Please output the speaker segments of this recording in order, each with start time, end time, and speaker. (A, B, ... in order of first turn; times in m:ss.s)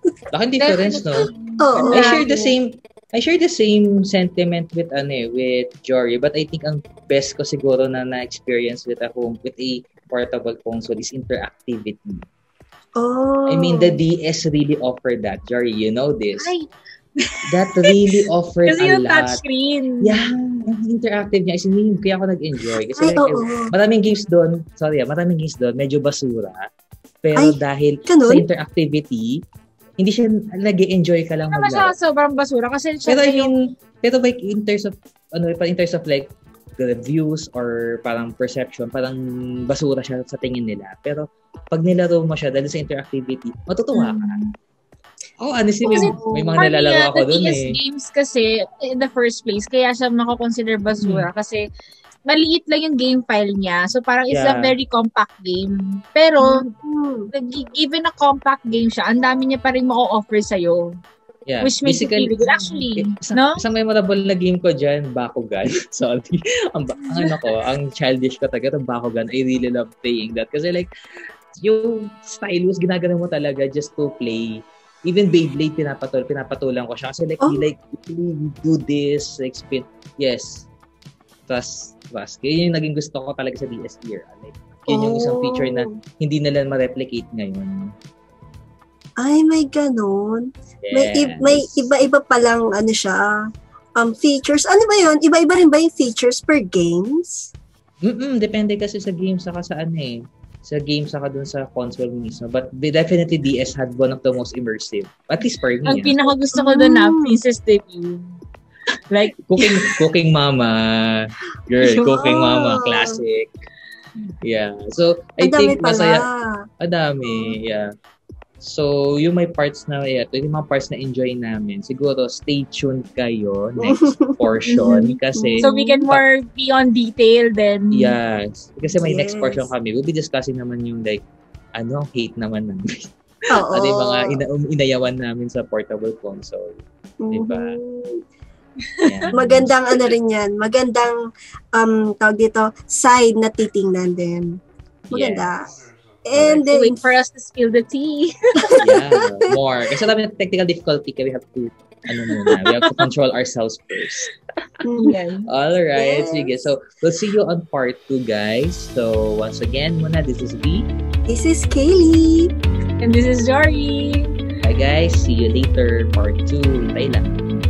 0:00.3-0:01.3 A
0:00.6-0:02.6 B
0:01.6-0:02.2 C
0:01.9-0:12.3 A
0:13.0-0:14.0 C
0:13.5-0:16.5 A
0:16.4-0:16.7 B
0:17.2-0:20.2 B
0:17.5-0:19.4 A
0:20.0-0:26.7 A
0:23.0-0:23.7 C
0:27.2-0:29.4 A
0:27.4-0:28.4 C
0:30.0-0:31.9 A
0:31.5-0:33.5 B
0:33.1-0:44.4 A
0:43.9-0:44.5 B
0:45.4-0:47.8 A
0:45.9-0:51.6 B
0:45.9-0:46.6 C
0:51.0-0:51.3 A
0:52.3-0:56.7 B
0:54.3-0:54.8 A
0:56.4-0:57.3 C
0:57.3-1:00.9 B
1:01.5-1:10.9 A
1:01.6-1:03.6 B
1:07.0-1:07.4 B
1:11.6-1:20.7 A
1:17.4-1:17.7 C
1:21.5-1:27.9 A
1:24.9-1:25.9 C
1:29.2-1:33.4 C
1:30.8-1:31.9 A
1:34.0-1:37.5 C
1:38.0-1:46.2 A
1:45.8-1:48.3 B
1:46.5-1:47.4 C
1:49.1-1:49.9 B
1:49.4-1:53.5 A
1:51.8-1:53.2 C
1:54.4-1:56.3 A
1:55.4-1:56.6 C
1:56.8-1:57.9 A
1:58.6-2:06.2 A
2:03.8-2:04.4 C
2:04.7-2:08.1 B
2:05.4-2:06.0 C
2:07.9-2:11.2 A
2:08.9-2:09.6 C
2:11.8-2:13.1 A
2:13.5-2:14.4 C
2:13.7-2:17.7 A
2:17.2-2:18.2 C
2:19.0-2:19.8 A
2:19.3-2:21.2 C
2:21.7-2:24.6 C
2:25.1-2:25.5 A
2:25.1-2:25.7 C
2:26.2-2:27.0 C
2:26.3-2:26.7 A
2:26.7-2:28.7 B
2:28.6-2:29.2 C
2:28.8-2:34.3 A
2:32.5-2:33.0 B
2:34.8-2:35.1 C
2:35.0-2:35.5 B
2:35.5-2:40.9 A
2:36.0-2:36.7 C
2:41.3-2:42.5 C
2:43.0-2:44.3 B
2:44.6-2:47.4 A